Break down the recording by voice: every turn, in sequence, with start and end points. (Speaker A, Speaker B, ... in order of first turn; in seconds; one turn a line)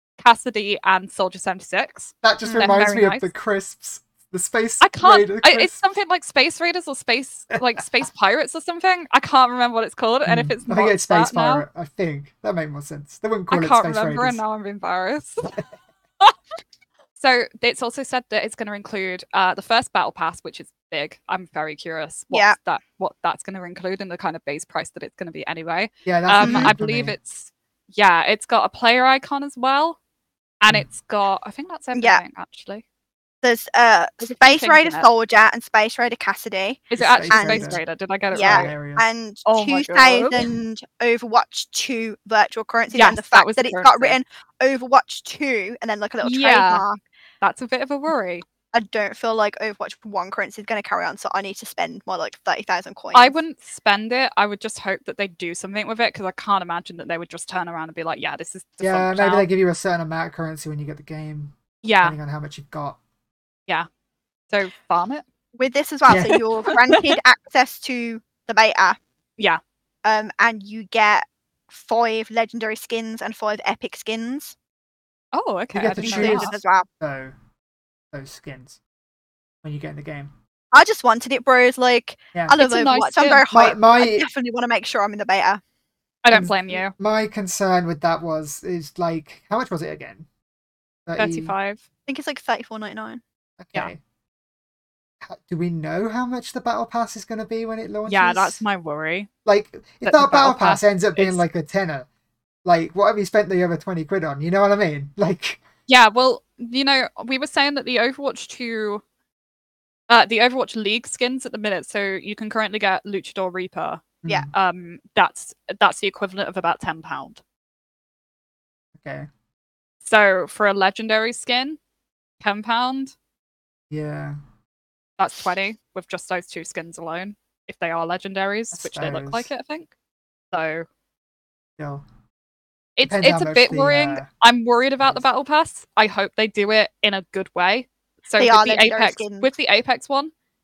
Speaker A: 0.2-3.3
Speaker B: 2.2-5.8
Speaker C: 2.4-2.8
Speaker A: 4.8-11.7
Speaker B: 10.3-14.4
Speaker A: 13.5-15.6
Speaker A: 17.2-30.0
Speaker B: 26.1-27.2
Speaker C: 26.4-26.7
Speaker A: 30.6-32.8
Speaker C: 31.9-32.2
Speaker C: 33.4-37.8
Speaker A: 34.2-35.1
Speaker A: 36.9-38.7
Speaker B: 37.0-39.0
Speaker C: 38.3-47.0
Speaker A: 39.5-40.5
Speaker A: 42.9-44.2
Speaker A: 46.2-46.8
Speaker A: 47.4-48.5
Speaker C: 48.7-53.4
Speaker A: 53.1-59.5
Speaker B: 58.8-63.0
Speaker A: 61.8-62.2
Speaker A: 64.5-65.2
Speaker C: 65.6-69.0
Speaker B: 66.1-66.4
Speaker A: 66.1-67.2
Speaker C: 70.0-74.5
Speaker A: 75.3-76.6
Speaker B: 75.7-77.3
Speaker C: 76.0-76.9
Speaker B: 78.1-78.8
Speaker B: 79.6-80.3
Speaker C: 80.7-85.6
Speaker A: 82.6-83.5
Speaker B: 83.5-84.3
Speaker A: 86.2-86.9
Speaker B: 86.3-90.3
Speaker B: 91.1-91.5
Speaker A: 91.2-91.8
Speaker C: 92.1-93.2
Speaker B: 93.6-94.0
Speaker B: 95.2-98.6
Speaker A: 98.1-99.3
Speaker B: 99.5-102.1
Speaker A: 100.0-101.4
Speaker B: 102.7-105.6
Speaker A: 105.9-109.0
Speaker A: 110.1-117.4
Speaker B: 114.2-114.5
Speaker B: 119.0-119.3
Speaker A: 120.0-121.8
Speaker A: 122.4-123.1
Speaker B: 123.9-124.4
Speaker A: 125.2-129.9
Speaker B: 128.7-129.5
Speaker A: 130.5-130.9
Speaker B: 131.8-132.0
Speaker A: 133.0-140.3
Speaker B: 133.0-134.3
Speaker C: 138.4-139.5